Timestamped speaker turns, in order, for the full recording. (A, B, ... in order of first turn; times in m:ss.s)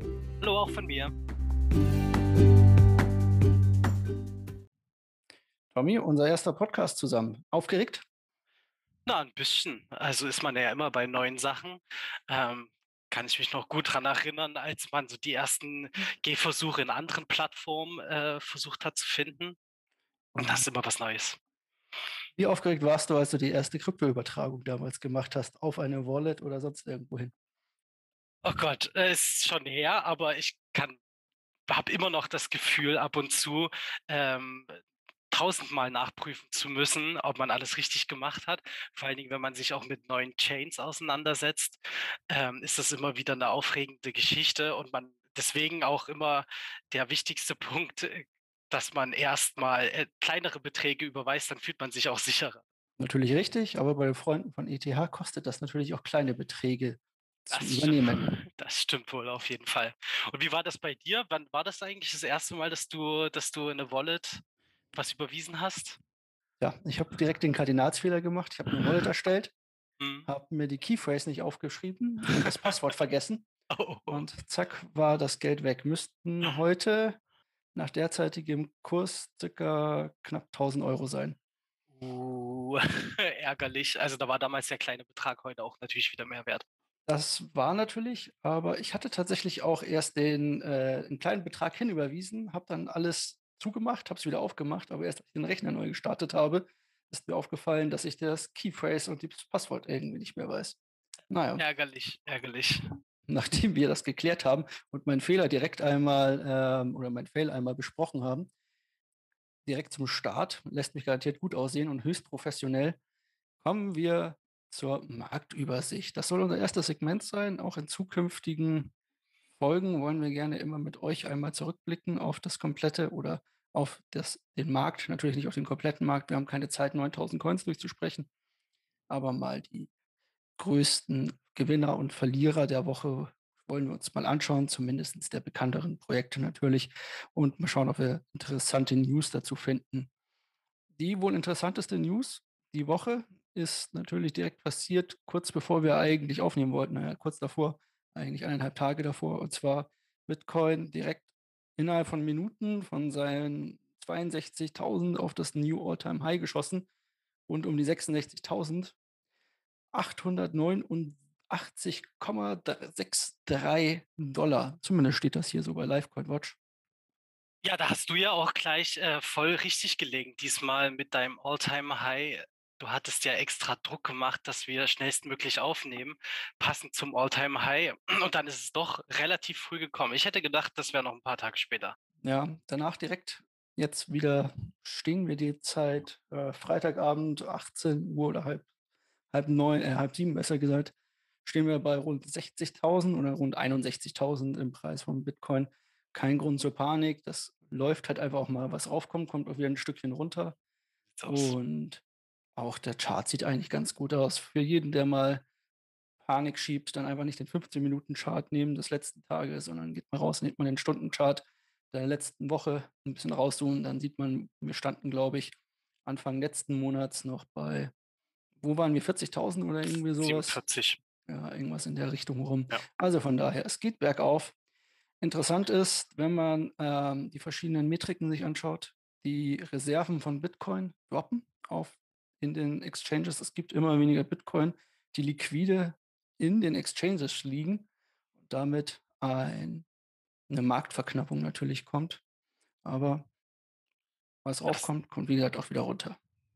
0:00.4-0:01.1 A
0:05.7-0:08.0 B
0:09.0-0:19.6 A
0:20.3-0:20.6 B
0:20.4-0:21.4 A
0:22.4-0:27.3 B
0:28.4-0:31.0 A
0:31.7-0:34.8 A
0:35.3-0:52.6 A
0:53.0-0:58.3 B
0:57.5-1:06.0 A
1:06.6-1:09.5 B
1:10.0-1:10.3 A
1:10.3-1:13.4 B
1:13.7-1:14.2 A
1:14.1-1:17.2 B
1:17.7-1:21.4 B
1:21.9-1:26.6 A
1:27.0-1:40.8 B
1:41.3-1:41.6 B
1:41.6-1:42.8 A
1:43.3-1:48.5 B
1:49.6-1:53.0 B
1:53.6-1:58.9 B
1:59.6-2:08.3 B
2:09.1-2:09.9 B
2:10.6-2:20.1 B
2:20.9-2:36.9 B
2:37.5-2:39.0 B
2:39.9-2:46.6 B
2:47.6-3:02.0 A
3:02.2-3:08.6 B
3:09.3-3:10.9 B
3:11.4-3:20.6 B
3:21.2-3:21.5 A
3:21.2-3:22.0 B
3:22.6-3:25.4 B
3:26.2-3:37.9 B
3:38.6-3:40.6 B
3:40.2-3:41.0 A
3:41.2-3:44.5 B
3:45.2-3:57.9 B
3:58.4-3:59.8 B
4:00.5-4:02.2 B
4:02.8-4:03.3 B
4:04.4-4:06.2 B